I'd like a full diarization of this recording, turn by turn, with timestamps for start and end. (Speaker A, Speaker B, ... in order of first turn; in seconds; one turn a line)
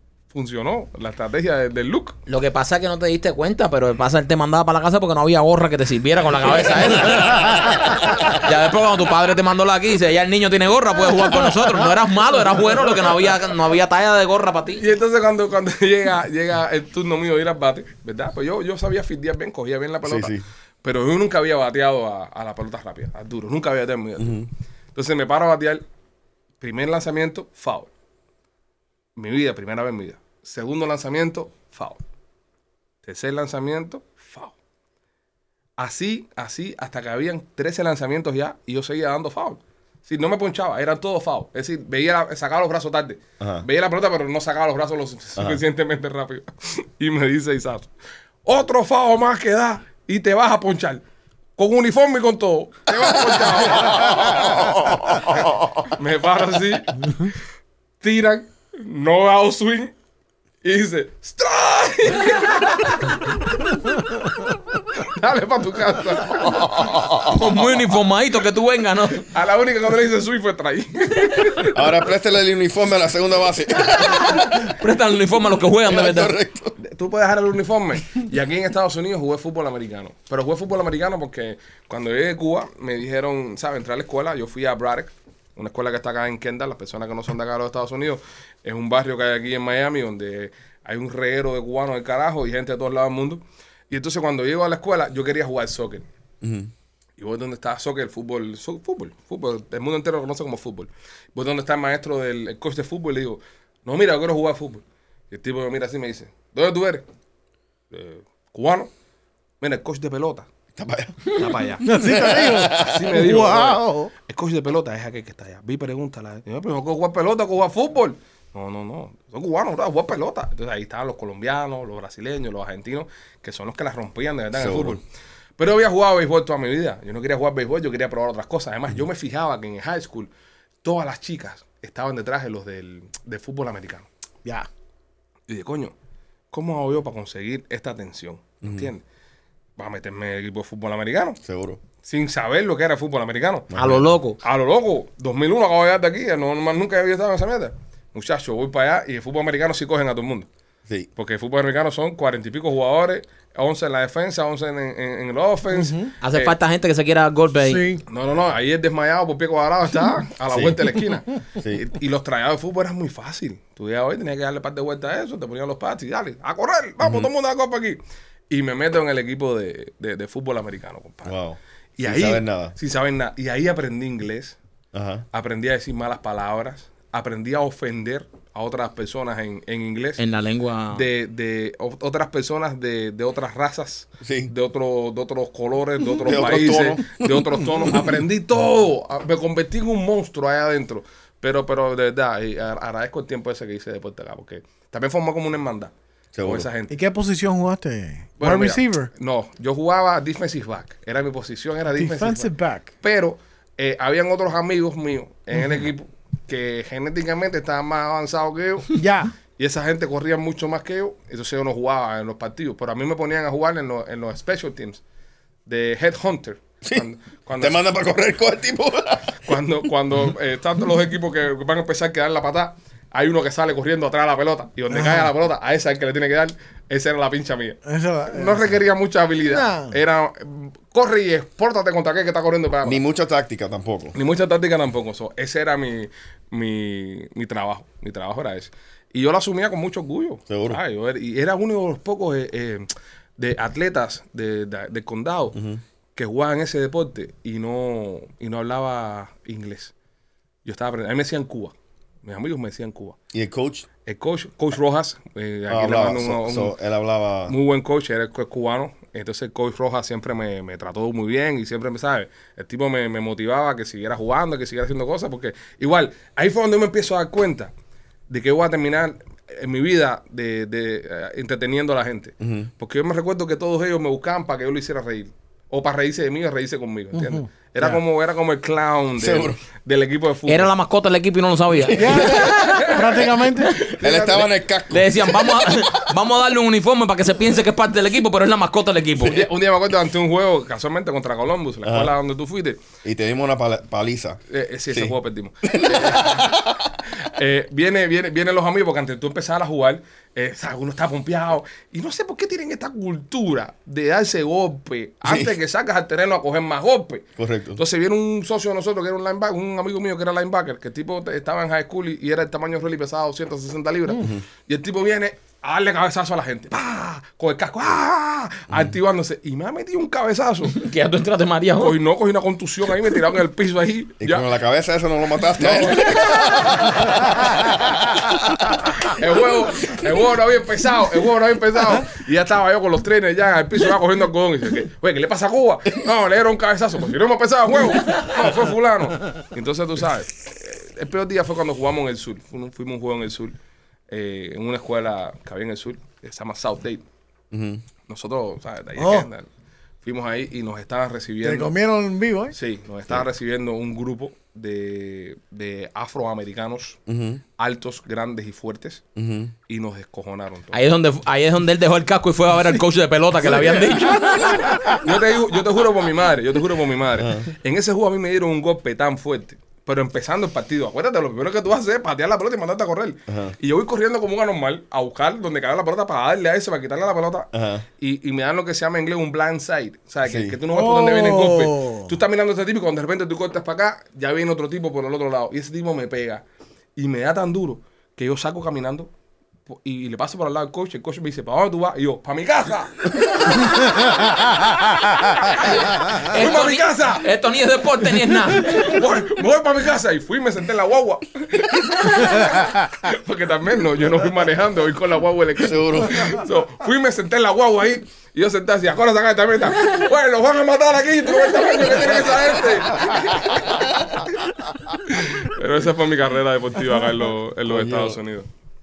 Speaker A: 0.3-2.2
Speaker B: 2.3-14.8
Speaker A: 14.8-24.4
Speaker C: 20.0-20.4
Speaker C: 24.2-24.5
Speaker A: 24.9-25.8
Speaker A: 26.6-27.9
Speaker A: 29.1-32.0
Speaker A: 33.0-34.5
Speaker A: 35.8-47.9
Speaker C: 43.4-43.6
Speaker A: 48.4-51.0
Speaker A: 51.6-57.3
Speaker C: 53.8-54.9
Speaker A: 58.0-59.9
Speaker A: 60.6-63.2
Speaker A: 65.0-67.2
Speaker B: 67.2-69.2
Speaker A: 69.3-71.8
Speaker C: 71.7-74.7
Speaker B: 74.6-76.3
Speaker C: 75.8-76.8
Speaker A: 76.8-96.0
Speaker C: 96.4-96.7
Speaker A: 97.2-107.0
Speaker A: 107.9-108.9
Speaker A: 109.6-110.5
Speaker C: 110.8-113.2
Speaker A: 111.3-111.9
Speaker D: 111.8-114.1
Speaker A: 112.8-125.0
Speaker C: 124.5-125.0
Speaker A: 125.6-130.3
Speaker A: 130.8-134.1
Speaker A: 135.5-135.9
Speaker A: 136.5-139.0
Speaker C: 138.6-138.9
Speaker A: 139.8-141.4
Speaker C: 141.4-141.8
Speaker A: 142.0-143.7
Speaker C: 143.7-144.1
Speaker B: 143.7-144.4
Speaker A: 144.4-150.5
Speaker A: 151.2-156.5
Speaker D: 155.7-156.1
Speaker B: 156.2-157.8
Speaker D: 157.6-158.0
Speaker A: 158.1-168.0
Speaker C: 160.5-160.8
Speaker C: 161.6-161.9
Speaker C: 167.0-167.3
Speaker A: 168.5-171.3
Speaker C: 171.2-172.7
Speaker A: 172.0-174.6
Speaker C: 174.9-175.2
Speaker A: 175.3-180.2
Speaker B: 180.2-181.0
Speaker A: 180.9-195.9
Speaker C: 184.2-184.5
Speaker C: 186.2-188.1
Speaker C: 196.3-196.7
Speaker A: 196.4-196.9
Speaker D: 196.9-199.1
Speaker A: 198.4-202.5
Speaker D: 201.9-202.9
Speaker A: 203.0-209.0
Speaker D: 208.9-209.3
Speaker A: 209.6-215.0
Speaker A: 215.7-217.8
Speaker C: 217.6-219.4
Speaker A: 219.4-233.0
Speaker D: 224.9-225.3
Speaker D: 227.9-228.7
Speaker D: 229.4-229.9
Speaker C: 232.8-234.1
Speaker A: 234.1-242.9
Speaker C: 240.5-240.8
Speaker A: 243.4-245.6
Speaker C: 245.5-245.8
Speaker A: 246.2-249.9
Speaker A: 250.6-251.7
Speaker A: 252.2-253.2
Speaker C: 253.3-253.9
Speaker A: 254.1-256.7
Speaker C: 255.7-257.6
Speaker A: 257.5-267.7
Speaker A: 268.3-280.7
Speaker C: 272.4-272.7
Speaker D: 277.1-277.4
Speaker C: 279.2-279.6
Speaker B: 280.5-282.5
Speaker C: 281.9-282.5
Speaker D: 281.9-283.8
Speaker A: 282.2-284.5
Speaker C: 283.8-285.6
Speaker B: 284.9-289.4
Speaker A: 289.2-292.8
Speaker C: 291.8-292.1
Speaker C: 293.0-294.4
Speaker A: 294.5-296.5
Speaker C: 294.9-296.9
Speaker A: 297.2-320.7
Speaker C: 305.2-305.5
Speaker C: 307.4-307.8
Speaker C: 314.1-314.4
Speaker B: 320.7-321.9
Speaker A: 321.8-324.4
Speaker C: 324.2-328.3
Speaker A: 325.6-326.8
Speaker A: 329.0-343.5
Speaker A: 344.1-347.0
Speaker C: 347.5-347.8
Speaker A: 348.1-349.5
Speaker D: 349.0-349.3
Speaker A: 350.0-351.7
Speaker D: 351.4-352.5
Speaker A: 352.5-357.0
Speaker C: 357.1-357.4
Speaker A: 357.6-359.0
Speaker C: 359.1-359.5
Speaker A: 359.7-360.8
Speaker B: 360.7-364.3
Speaker A: 364.9-377.5
Speaker C: 367.2-367.5
Speaker C: 373.3-373.6
Speaker C: 377.5-377.8
Speaker A: 378.0-386.4
Speaker C: 380.2-380.6
Speaker D: 380.7-382.1
Speaker A: 387.0-389.1
Speaker A: 389.7-393.7
Speaker A: 395.5-397.2
Speaker B: 396.1-398.9
Speaker A: 398.5-413.9
Speaker C: 405.6-406.4
Speaker C: 412.9-414.2
Speaker A: 415.1-418.5
Speaker C: 417.6-418.2